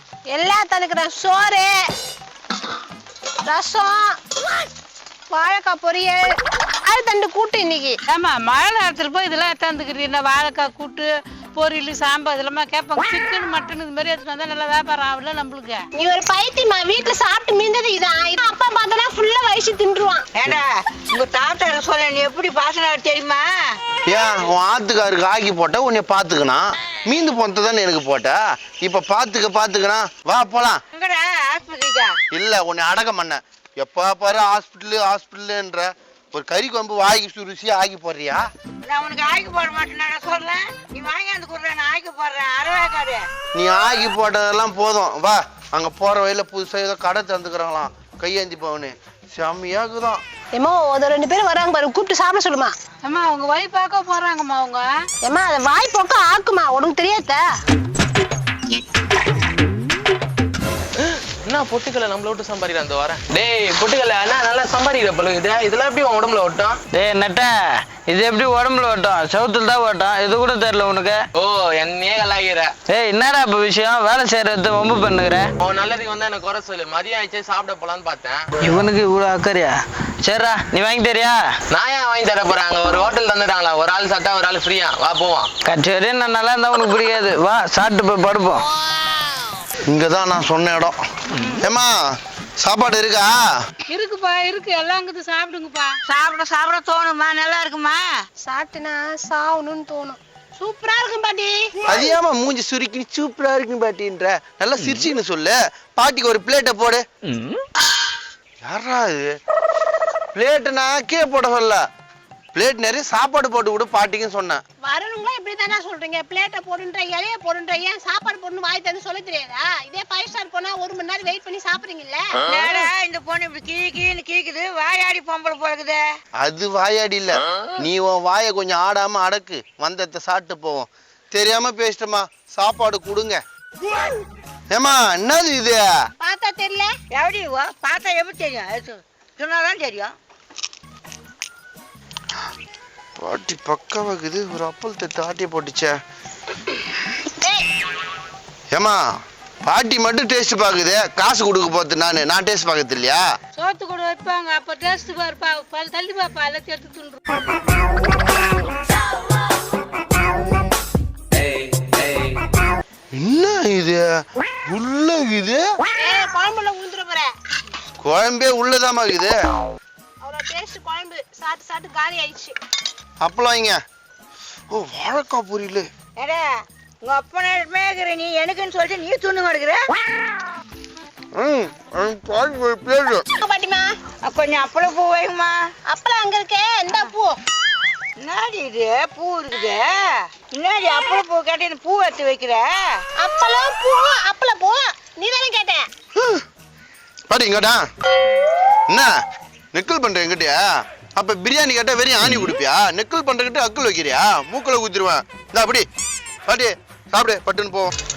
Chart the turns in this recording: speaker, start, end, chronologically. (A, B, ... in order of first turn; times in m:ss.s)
0:00.3-0:01.7 A
0:03.5-0:04.1 A
0:05.3-0:06.3 A
0:06.9-0:08.0 A
0:08.1-0:15.8 B
0:16.0-0:20.3 A
0:21.1-0:23.4 C
0:24.1-0:30.8 D
0:31.0-0:32.1 C
0:32.3-0:38.4 D
0:38.9-0:43.2 C
0:43.6-0:50.2 D
0:50.6-0:52.7 A
0:53.0-0:54.9 B
0:55.2-0:57.4 A
1:01.0-1:06.8 E
1:06.9-1:11.2 F
1:11.4-1:12.7 E
1:12.9-1:15.5 F
1:15.6-1:18.5 E
1:18.6-1:21.4 F
1:21.7-1:25.5 E
1:25.7-1:28.7 F
1:29.9-1:31.0 D
1:31.6-1:31.9 D
1:32.6-1:33.4 D
1:33.9-1:35.9 B
1:36.1-1:38.0 C
1:38.4-1:41.7 A
1:41.9-1:47.0 D
1:47.3-1:47.6 F
1:48.6-1:49.3 D
1:50.4-1:51.8 D
1:52.6-1:54.6 D
1:54.8-2:02.6 A
2:02.5-2:06.0 C
2:06.4-2:13.4 D
2:14.7-2:15.8 D
2:16.2-2:16.9 A
2:17.2-2:20.1 C
2:23.2-2:25.9 D
2:28.7-2:29.0 D
2:29.6-2:33.2 D
2:33.6-2:37.4 B
2:41.8-2:42.2 E
2:43.1-2:44.0 D
2:44.7-2:45.6 D
2:46.0-2:47.3 A
2:48.0-2:49.4 D
2:50.2-2:52.6 A
2:53.2-2:53.8 D
2:54.7-2:55.9 D
2:57.0-2:59.8 C
3:01.4-3:03.2 D
3:03.4-3:03.9 A
3:04.3-3:05.5 C
3:05.9-3:07.4 A
3:08.2-3:09.9 C
3:10.6-3:12.7 C
3:13.2-3:15.9 A
3:16.2-3:16.4 D
3:17.3-3:17.8 D
3:19.7-3:20.6 D
3:21.2-3:25.9 D
3:26.5-3:27.9 D